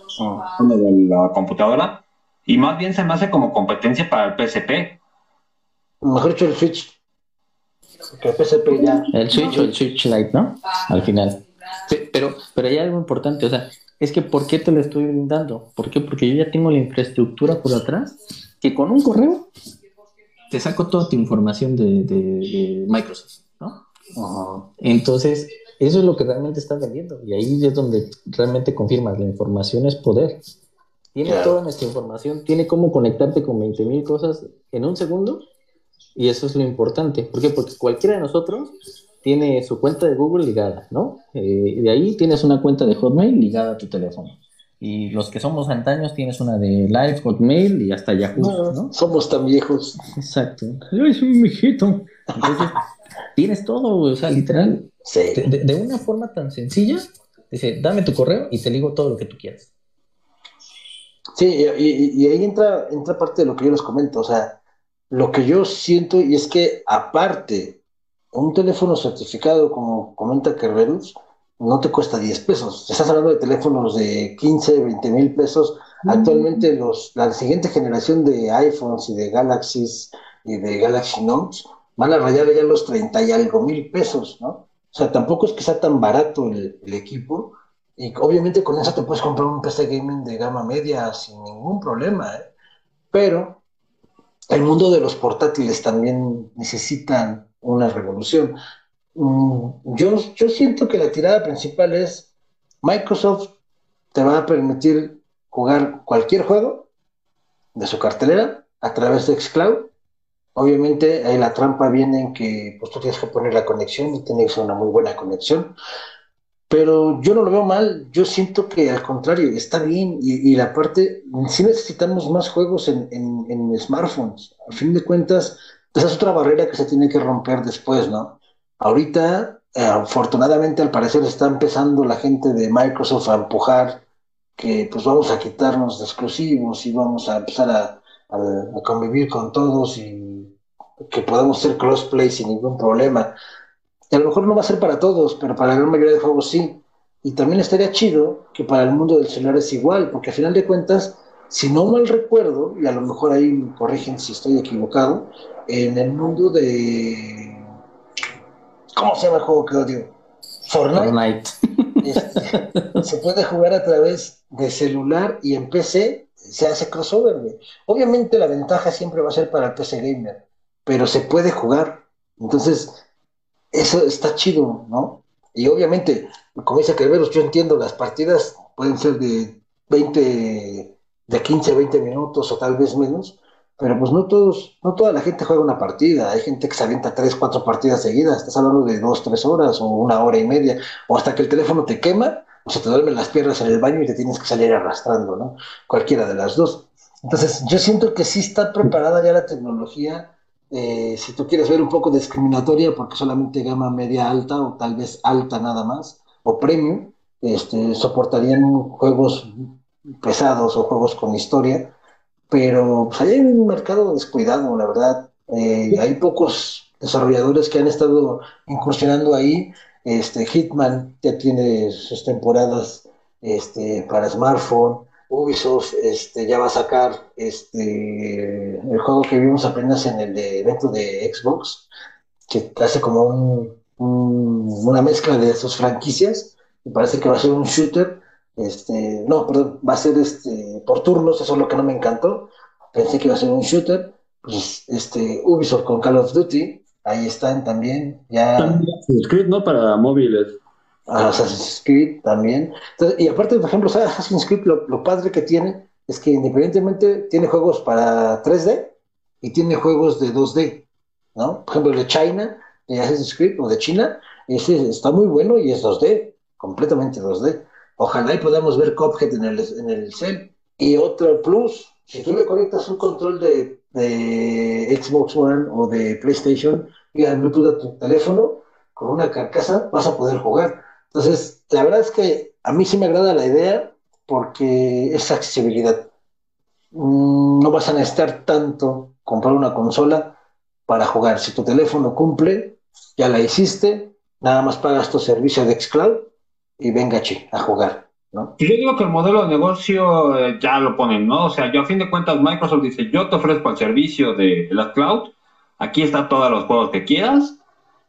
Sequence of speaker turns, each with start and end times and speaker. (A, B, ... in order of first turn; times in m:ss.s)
0:00.2-0:00.5 A
0:00.5-0:01.9 B
0:02.5-0:04.9 B
0:06.0-0:06.9 A
0:08.1-0:09.7 A
0:09.1-0:18.1 C
0:18.6-0:19.4 C
0:20.5-0:23.8 C
0:24.2-0:24.6 A
0:24.8-0:30.4 C
0:31.1-0:35.4 C
0:31.2-0:31.6 A
0:36.2-0:38.7 C
0:39.2-0:48.9 C
0:48.4-0:50.0 A
0:50.2-0:52.8 C
0:53.4-0:54.8 C
0:55.0-0:55.4 A
0:55.4-0:59.7 C
1:01.4-1:04.5 A
1:05.1-1:07.7 A
1:08.3-1:32.4 A
1:16.1-1:16.5 B
1:33.1-1:33.6 A
1:34.5-1:38.5 A
1:39.2-1:42.3 A
1:42.8-1:43.5 A
1:44.1-1:46.8 A
1:47.8-1:49.8 A
1:50.6-1:55.7 A
1:56.7-2:14.0 A
2:14.6-2:20.5 A
2:21.1-2:23.3 A
2:24.1-2:37.6 A
2:39.0-2:40.1 A
2:40.6-2:41.2 A
2:41.0-2:41.5 C
2:42.0-2:52.9 A
2:42.1-2:43.0 C
2:53.7-3:29.7 A
3:30.2-3:31.8 A
3:32.5-3:51.8 A
3:52.5-4:08.8 A
4:08.6-4:10.6 B
4:11.1-4:18.9 A
4:19.4-4:20.8 A
4:21.4-4:46.0 A
4:46.9-4:50.3 A
4:50.9-4:56.2 A
4:56.8-4:58.5 A
4:58.6-5:05.3 B
5:05.8-5:07.6 B